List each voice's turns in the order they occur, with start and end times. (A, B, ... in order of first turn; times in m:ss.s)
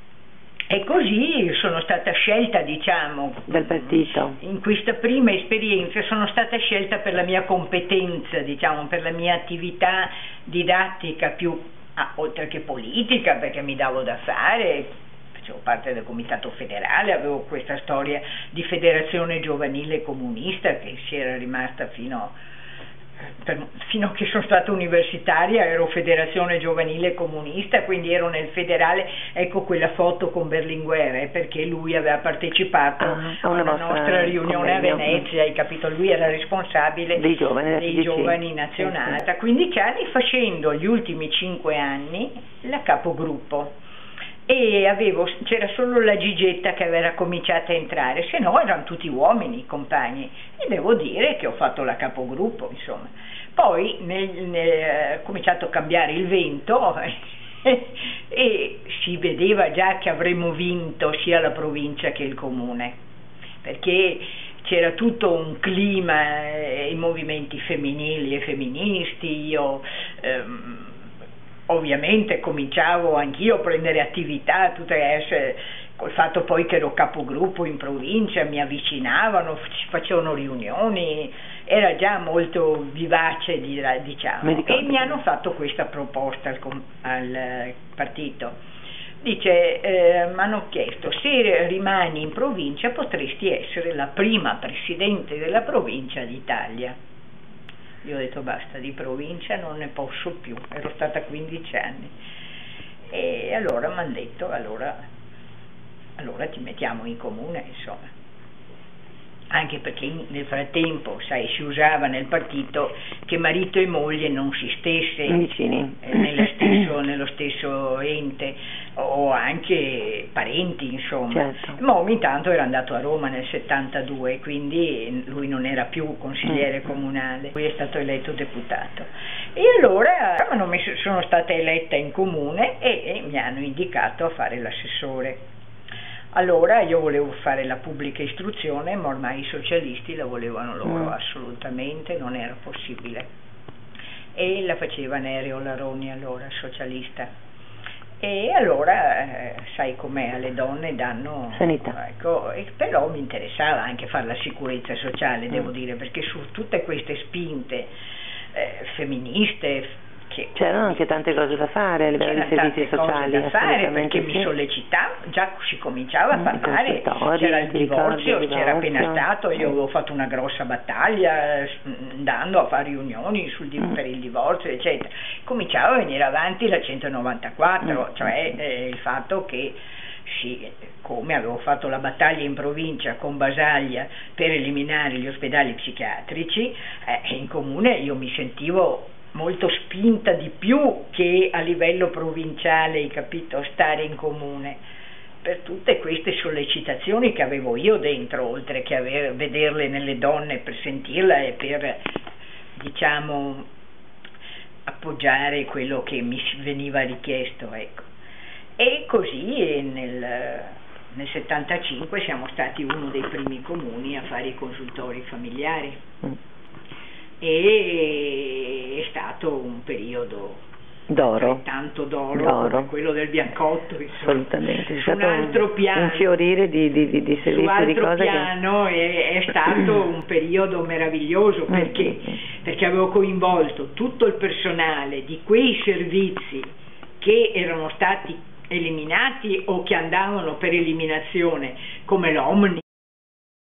0:00.7-0:22.4 A
0:03.5-0:04.4 B
0:23.4-0:43.8 A
0:33.0-0:35.2 B
0:37.1-0:39.2 B
0:44.5-1:03.0 A
1:03.6-1:11.0 A
1:11.7-1:28.6 A
1:24.4-1:25.2 B
1:29.2-1:37.0 A
1:38.0-1:42.1 A
1:43.1-1:45.0 A
1:46.2-1:48.1 A
1:49.5-1:55.4 A
1:55.3-1:56.1 B
1:56.0-2:15.4 A
2:01.3-2:01.8 B
2:16.3-2:23.3 A
2:24.3-2:27.3 A
2:28.2-2:37.9 A
2:31.5-2:31.9 B
2:38.5-2:41.0 A
2:40.6-2:44.5 B
2:42.2-3:14.8 A
2:46.3-2:49.2 B
3:15.4-3:22.0 A
3:22.8-3:23.7 A
3:24.8-3:28.1 A
3:28.8-3:36.0 A
3:37.4-3:40.6 A
3:41.1-3:41.6 B
3:41.2-3:46.3 A
3:42.3-3:42.9 B
3:44.2-3:48.5 B
3:47.4-4:02.8 A
3:51.7-3:52.1 B